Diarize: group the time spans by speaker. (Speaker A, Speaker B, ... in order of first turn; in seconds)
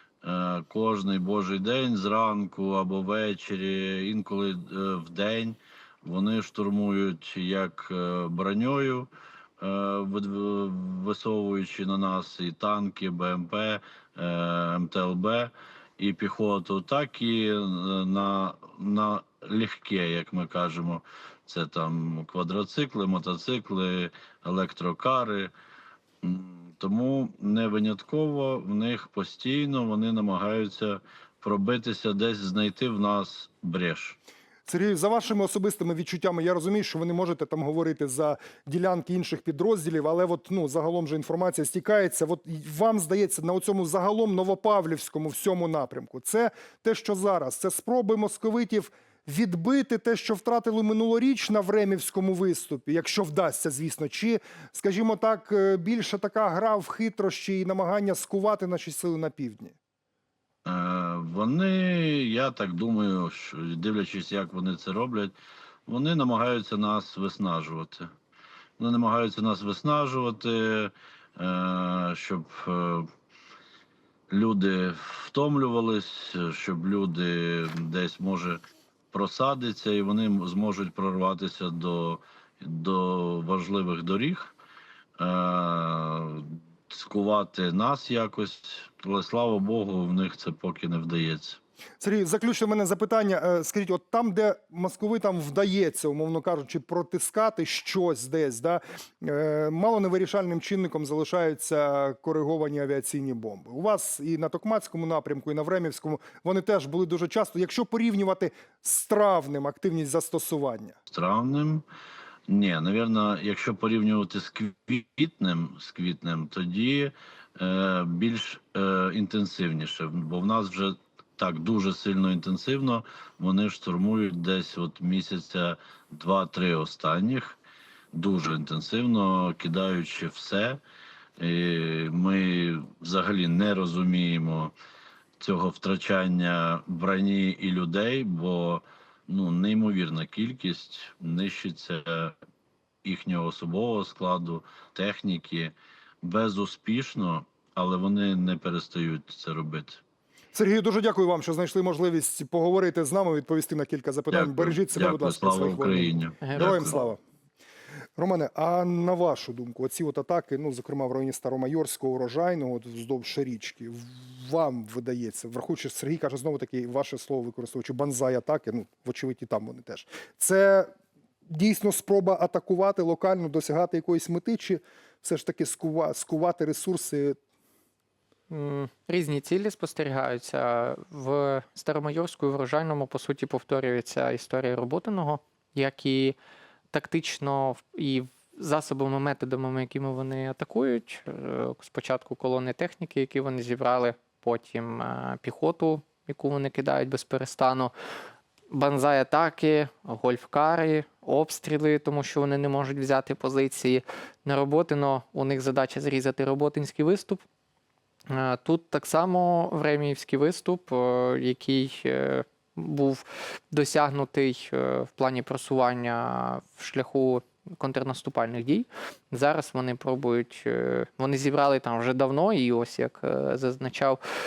Speaker A: 0.2-9.1, 9.6-25.5, 26.2-34.2, 60.6-65.3, 65.9-68.1, 68.8-73.1, 74.3-78.6, 79.1-84.5, 85.2-91.6, 111.1-111.8, 112.5-127.6, 128.1-130.8, 131.4-134.7, 135.4-142.3, 143.1-150.0, 154.3-156.9
Speaker B: 34.7-59.8, 92.0-111.0, 150.5-157.2, 158.2-170.9, 171.5-177.4
Speaker C: 156.4-156.9, 178.5-186.4, 186.9-197.9, 198.7-207.4, 208.3-224.2